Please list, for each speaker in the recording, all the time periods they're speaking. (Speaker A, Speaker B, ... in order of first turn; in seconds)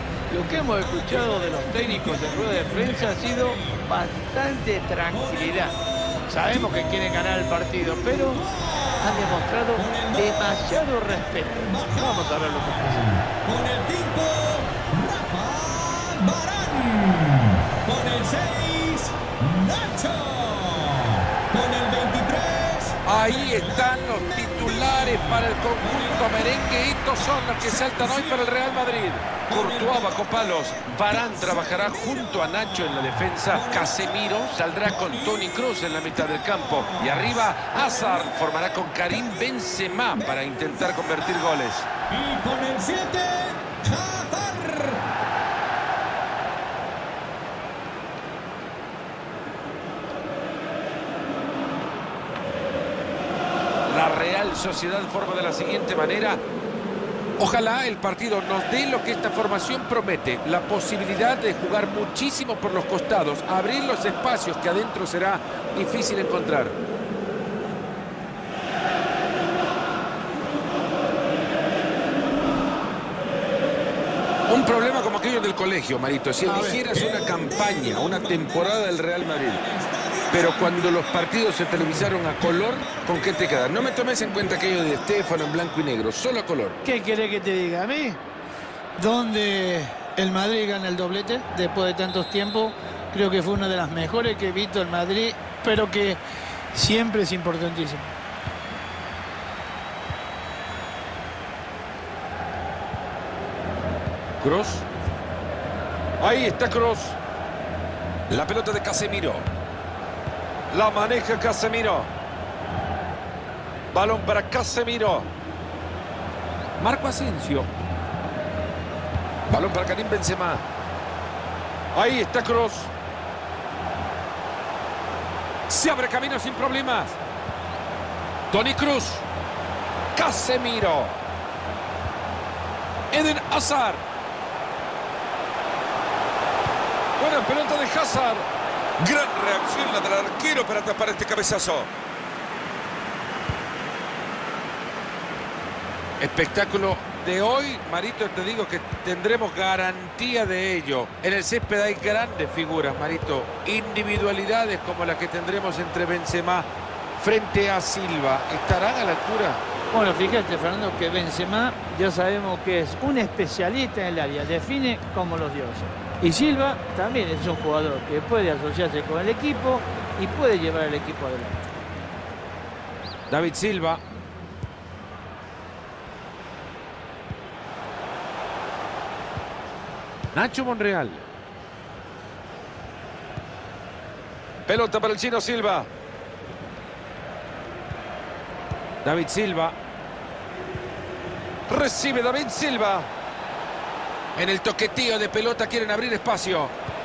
Speaker A: 0.3-5.8, 6.3-8.4, 9.0-13.1, 76.4-76.8, 86.8-88.2, 89.0-96.2, 96.7-98.0, 159.9-171.6
Speaker B: 0.6-3.9, 5.1-7.2, 8.1-29.0, 29.5-45.1, 76.9-86.0
Speaker C: 23.0-41.9, 53.9-56.4, 57.4-66.8, 74.5-79.6, 80.3-86.8, 104.4-104.8, 106.2-107.2, 108.3-109.5, 110.7-112.1, 113.9-115.3, 116.8-117.7, 119.5-120.6, 121.9-122.9, 125.7-127.2, 128.5-129.2, 130.2-131.2, 133.1-134.0, 137.2-138.5, 139.0-141.9, 146.2-159.6, 173.3-174.0, 180.3-181.2, 184.7-185.9, 189.0-189.8, 191.7-193.1, 194.3-196.7